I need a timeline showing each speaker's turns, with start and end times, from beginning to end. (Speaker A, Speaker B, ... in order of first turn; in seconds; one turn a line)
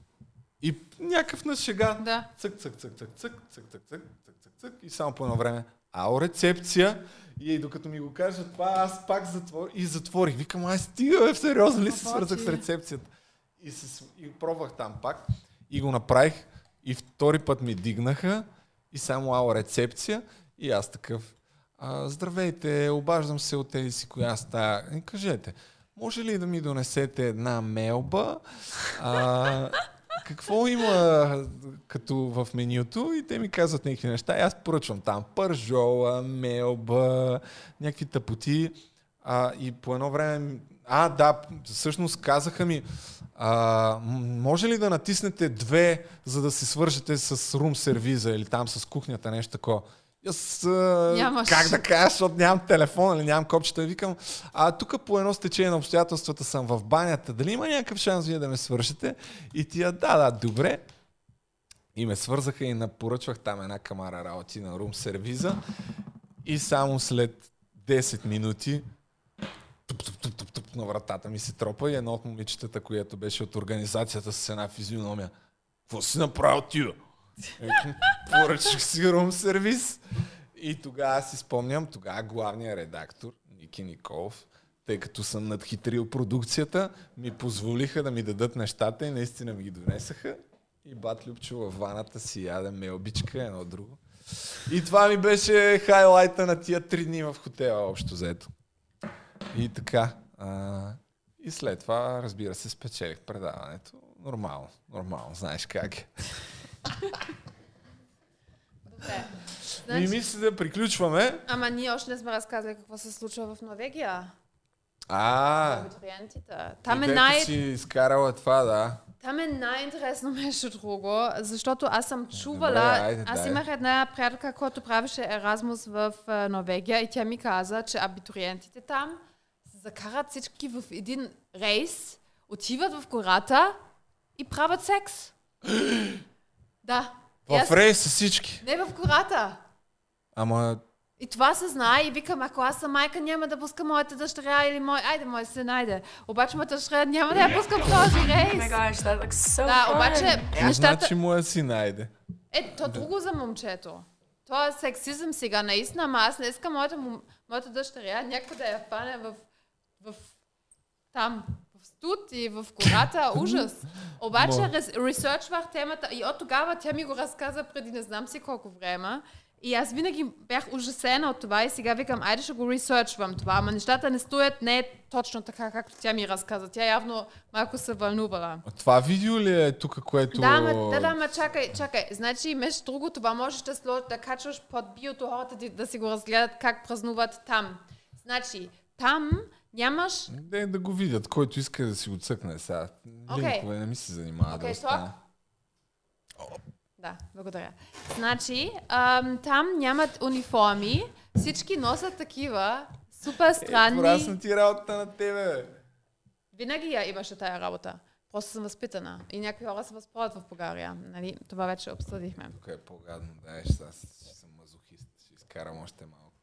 Speaker A: 0.6-60.8
Speaker B: 2.0-2.3
Speaker B: 11.8-12.6
Speaker B: 51.1-51.8
Speaker A: 61.9-65.6
Speaker A: 66.4-68.8
Speaker A: 69.9-75.3
Speaker A: 75.9-77.0
Speaker A: 77.6-80.0
Speaker A: 80.5-98.5
Speaker A: 99.5-106.1
Speaker B: 108.9-109.3
Speaker B: 109.8-110.1
Speaker A: 109.8-111.4
Speaker B: 111.5-114.3
Speaker A: 115.1-115.9
Speaker B: 115.6-117.6
Speaker A: 116.8-119.0
Speaker B: 119.2-133.8
Speaker A: 122.3-123.6
Speaker B: 134.4-135.3
Speaker A: 135.7-136.2
Speaker B: 136.8-137.8
Speaker A: 137.4-138.6
Speaker B: 138.6-139.6
Speaker A: 140.3-140.8
Speaker B: 141.2-149.0
Speaker C: 148.5-150.5
Speaker B: 149.6-151.1
Speaker A: 150.5-152.1
Speaker B: 152.5-159.4
Speaker B: 160.0-160.3
Speaker B: 161.1-178.6
Speaker A: 163.3-163.7
Speaker A: 164.3-164.7
Speaker A: 178.6-181.2
Speaker B: 180.3-190.3
Speaker A: 190.3-195.1
Speaker B: 193.3-193.7
Speaker B: 194.5-195.1
Speaker B: 197.0-204.3
Speaker A: 203.6-205.8
Speaker B: 206.5-212.5
Speaker A: 212.5-216.3